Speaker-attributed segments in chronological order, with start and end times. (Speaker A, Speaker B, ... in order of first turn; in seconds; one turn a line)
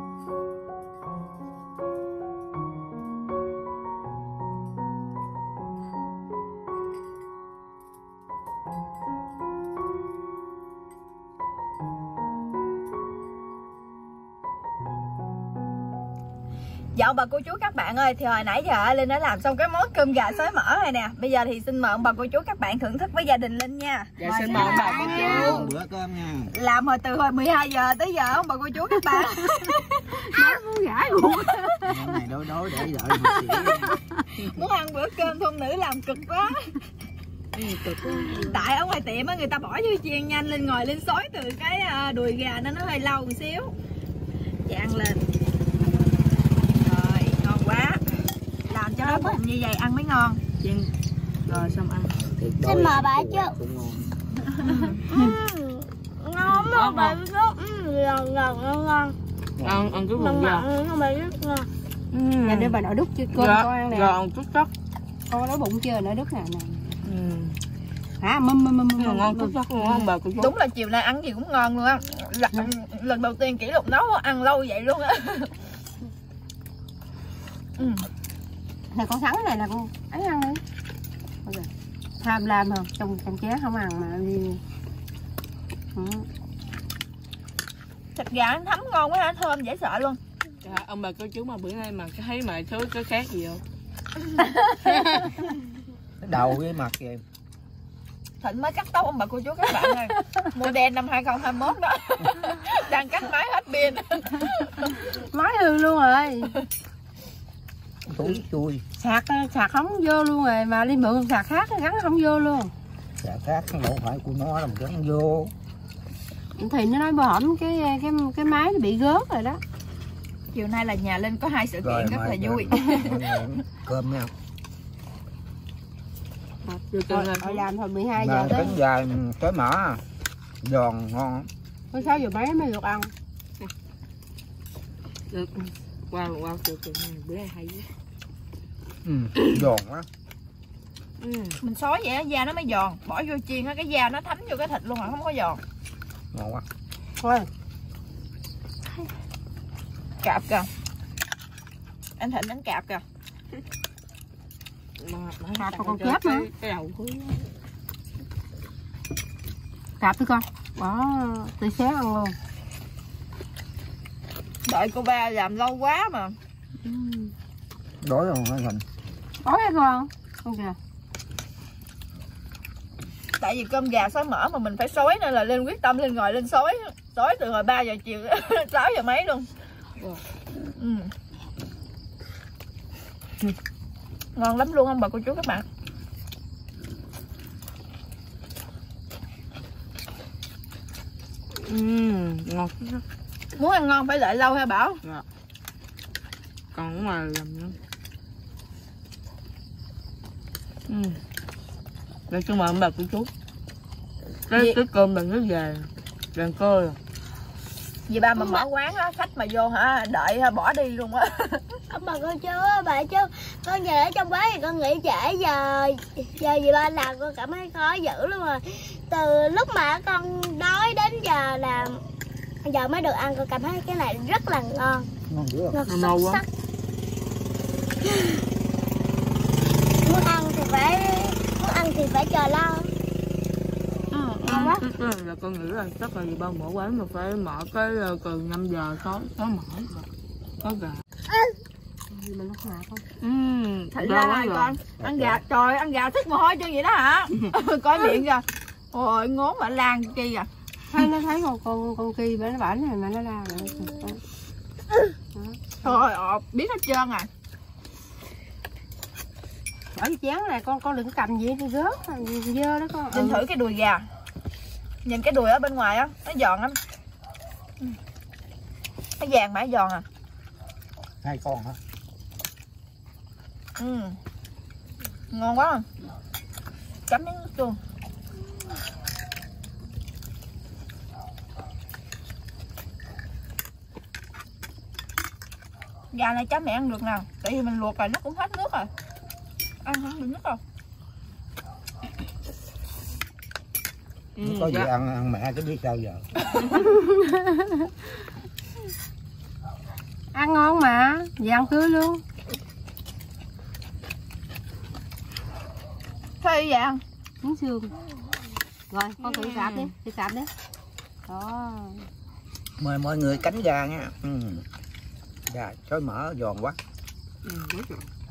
Speaker A: 16.9-25.7
Speaker B: 24.2-25.6
Speaker C: 24.2-26.5
Speaker D: 24.7-25.6
Speaker A: 26.5-31.9
Speaker D: 30.4-31.2
Speaker C: 31.8-34.0
Speaker A: 33.5-36.8
Speaker B: 37.5-38.6
Speaker A: 38.3-43.7
Speaker A: 44.6-45.2
Speaker A: 46.7-48.0
Speaker A: 48.7-50.4
Speaker E: 49.0-49.4
Speaker B: 50.6-50.9
Speaker B: 51.5-52.2
Speaker C: 52.2-54.1
Speaker E: 52.6-53.6
Speaker B: 54.6-55.0
Speaker E: 55.1-59.1
Speaker B: 56.4-57.2
Speaker C: 59.6-59.9
Speaker B: 59.6-60.7
Speaker E: 60.1-61.7
Speaker B: 62.1-64.7
Speaker D: 62.4-64.2
Speaker D: 65.3-67.0
Speaker B: 67.0-67.5
Speaker D: 68.2-69.6
Speaker B: 69.0-70.5
Speaker A: 70.4-75.5
Speaker A: 77.8-78.1
Speaker D: 78.9-80.6
Speaker D: 82.2-84.6
Speaker D: 85.9-86.3
Speaker A: 88.1-90.2
Speaker B: 90.6-93.6
Speaker C: 96.2-97.2
Speaker A: 98.4-104.9
Speaker D: 105.1-106.5
Speaker C: 108.0-108.8
Speaker D: 109.0-112.7
Speaker C: 113.2-115.5
Speaker D: 116.6-119.6
Speaker A: 120.5-123.2
Speaker C: 121.8-124.3
Speaker D: 126.7-128.8
Speaker B: 126.9-127.7
Speaker C: 128.2-130.0
Speaker C: 130.6-131.5
Speaker D: 131.9-133.1
Speaker B: 135.3-137.9
Speaker C: 139.0-140.1
Speaker B: 141.2-141.6
Speaker A: 141.6-145.6
Speaker C: 146.3-146.6
Speaker D: 147.2-147.5
Speaker A: 150.2-150.7
Speaker A: 152.2-153.0
Speaker B: 155.0-157.5
Speaker D: 155.6-156.5
Speaker D: 160.0-162.3
Speaker A: 164.6-166.4
Speaker D: 166.8-167.3
Speaker C: 168.0-168.8
Speaker D: 169.4-170.8
Speaker A: 173.4-179.5
Speaker A: 180.8-181.1
Speaker A: 184.3-185.6
Speaker B: 191.6-193.0
Speaker A: 193.6-195.0
Speaker B: 196.7-197.8
Speaker B: 200.9-201.2
Speaker B: 202.3-203.3
Speaker B: 204.5-207.0
Speaker A: 204.5-204.8
Speaker A: 208.1-211.6
Speaker E: 208.4-208.6
Speaker E: 211.9-222.0
Speaker E: 222.6-225.1
Speaker C: 225.3-225.8
Speaker E: 225.7-226.4
Speaker B: 225.9-226.4
Speaker E: 228.0-228.4
Speaker E: 230.0-232.9
Speaker A: 234.1-234.7
Speaker B: 234.4-240.1
Speaker E: 234.5-234.8
Speaker B: 240.6-241.0
Speaker D: 242.1-243.0
Speaker B: 243.2-244.8
Speaker A: 243.9-250.5
Speaker C: 245.0-245.4
Speaker D: 250.9-254.2
Speaker D: 255.3-255.9
Speaker A: 255.8-257.3
Speaker D: 259.9-263.4
Speaker A: 263.1-264.0
Speaker A: 265.0-266.8
Speaker A: 269.2-270.0
Speaker C: 271.2-271.8
Speaker A: 273.8-274.2
Speaker A: 275.3-275.9
Speaker A: 277.1-277.8
Speaker A: 286.1-288.9
Speaker A: 289.8-290.6
Speaker B: 294.4-294.9
Speaker C: 294.4-296.3
Speaker D: 296.7-297.9
Speaker D: 300.3-302.2
Speaker A: 306.4-307.0
Speaker D: 307.4-307.9
Speaker D: 308.9-310.5
Speaker B: 309.2-309.9
Speaker D: 311.3-312.1
Speaker C: 312.8-314.6
Speaker C: 315.5-316.8
Speaker B: 317.4-318.1